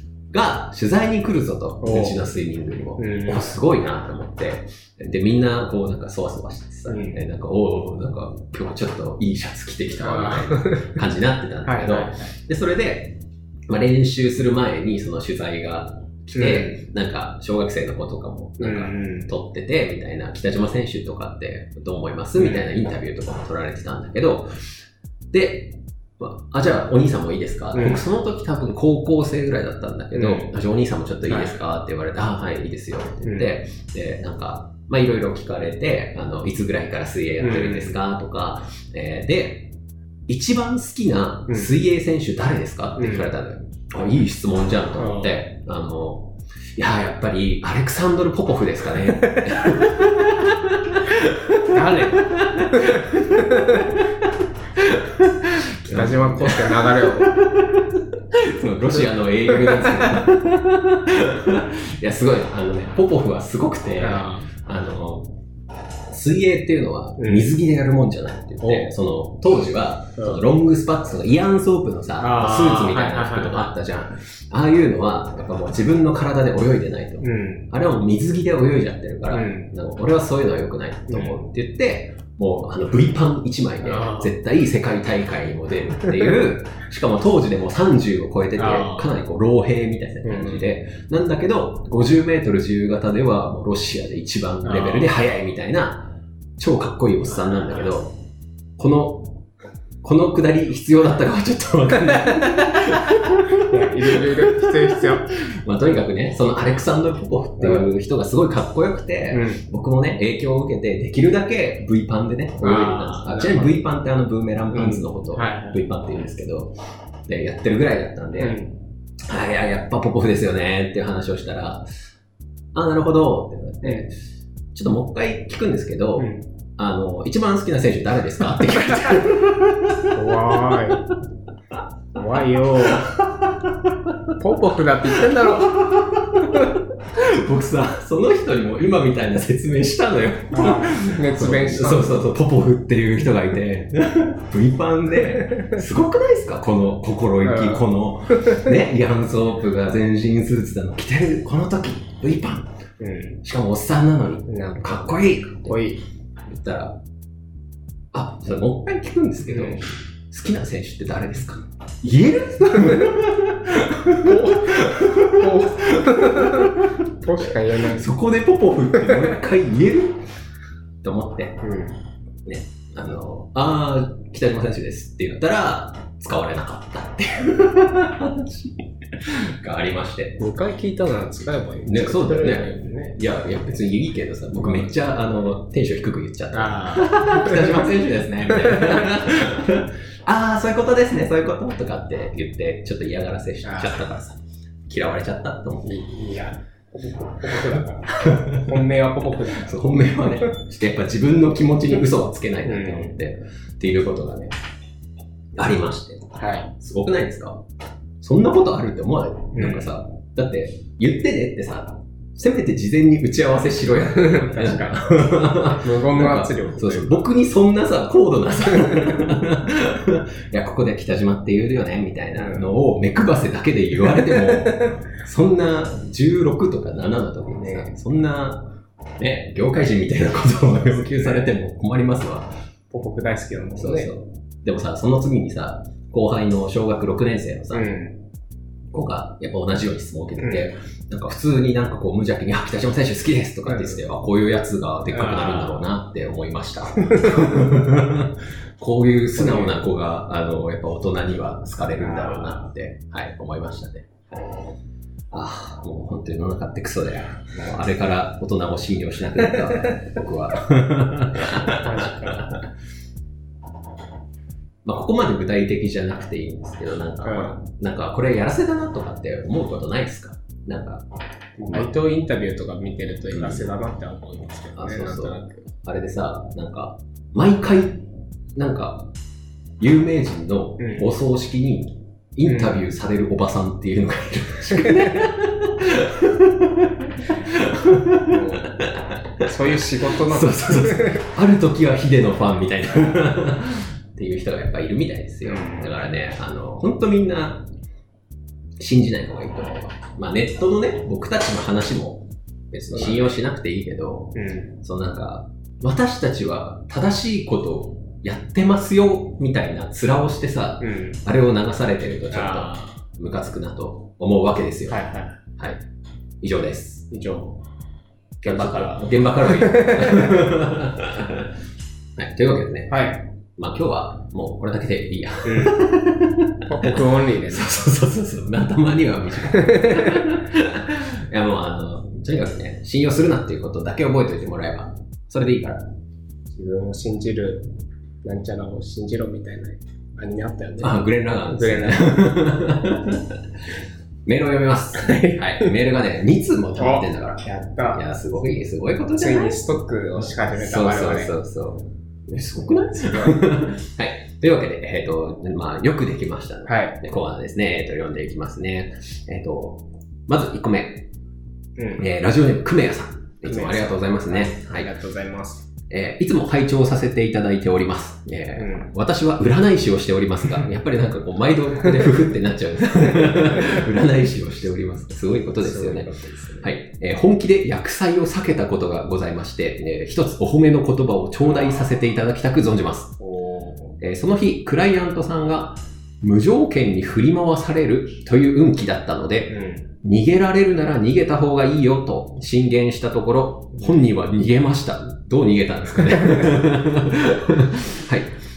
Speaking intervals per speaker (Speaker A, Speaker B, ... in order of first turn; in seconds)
Speaker A: 0.3-24.5, 25.3-39.7, 40.3-65.4, 66.1-98.2, 98.8-99.4, 100.0-118.6, 119.3-121.9, 122.7-124.2, 124.7-131.1, 132.2-134.3, 135.1-152.7, 153.4-155.8, 156.4-157.0, 158.1-170.2, 171.0-171.6, 172.4-180.4, 181.8-196.0, 198.2-198.9, 199.4-204.6, 205.6-207.6, 208.2-232.5, 233.8-237.9, 238.9-254.2, 255.3-262.1, 264.8-271.0, 273.3-273.7, 274.8-279.1, 279.8-297.7, 298.8-315.0, 315.6-315.8, 316.4-317.1, 318.4-321.5, 322.2-323.1, 323.6-335.8, 340.8-343.4, 344.2-349.8, 350.5-361.1, 362.0-364.9, 365.9-383.2, 384.0-398.3
Speaker B: 1.8-2.3, 3.0-3.5, 6.9-7.2, 10.0-11.0, 11.6-12.3, 16.3-16.8, 18.6-19.3, 22.4-22.7, 27.7-28.0, 30.1-30.5, 31.2-31.6, 33.2-33.5, 37.4-38.0, 41.5-41.7, 43.0-43.3, 45.0-45.4, 49.2-49.8, 51.6-53.9, 55.9-57.4, 58.9-60.2, 64.0-64.5, 67.2-67.5, 68.6-68.9, 70.2-70.4, 72.2-73.7, 77.2-77.7, 79.3-79.7, 81.1-81.4, 83.8-84.3, 88.5-89.1, 90.2-90.7, 94.6-95.2, 97.3-97.9, 103.7-105.3, 107.6-107.9, 109.3-109.6, 112.6-113.8, 114.7-115.9, 118.4-118.8, 126.2-126.5, 130.1-131.0, 132.1-133.1, 134.4-135.8, 140.5-142.1, 145.2-145.8, 147.4-148.7, 153.0-153.4, 154.5-155.1, 155.6-156.0, 159.4-159.9, 164.1-168.1, 168.9-169.4, 171.6-172.0, 180.4-183.2, 184.6-184.9, 186.5-187.9, 188.5-189.1, 193.6-194.0, 195.8-200.5, 202.6-203.2, 206.3-206.7, 209.5-209.9, 213.9-217.2, 218.7-219.2, 222.3-222.7, 224.1-225.0, 227.6-227.9, 230.9-231.5, 232.9-234.1, 237.7-238.2, 240.4-240.7, 243.7-244.0, 245.1-245.9, 247.1-247.7, 249.3-249.8, 251.9-252.7, 261.7-262.6, 267.2-267.5, 271.6-275.6, 280.8-281.1, 282.4-282.9, 288.2-288.9, 289.4-291.3, 295.4-296.0, 302.9-303.4, 304.3-304.8, 310.8-311.2, 312.3-313.0, 314.9-315.4, 317.1-317.6, 318.4-320.5, 322.9-323.2, 325.4-325.9, 326.6-327.9, 329.4-330.3, 336.5-342.3, 344.9-345.7, 346.8-348.0, 349.2-351.3, 352.9-353.4, 356.6-357.0, 361.8-362.1, 363.4-365.7, 368.6-368.9, 373.0-373.8, 375.6-376.7, 383.2-384.0, 389.5-389.9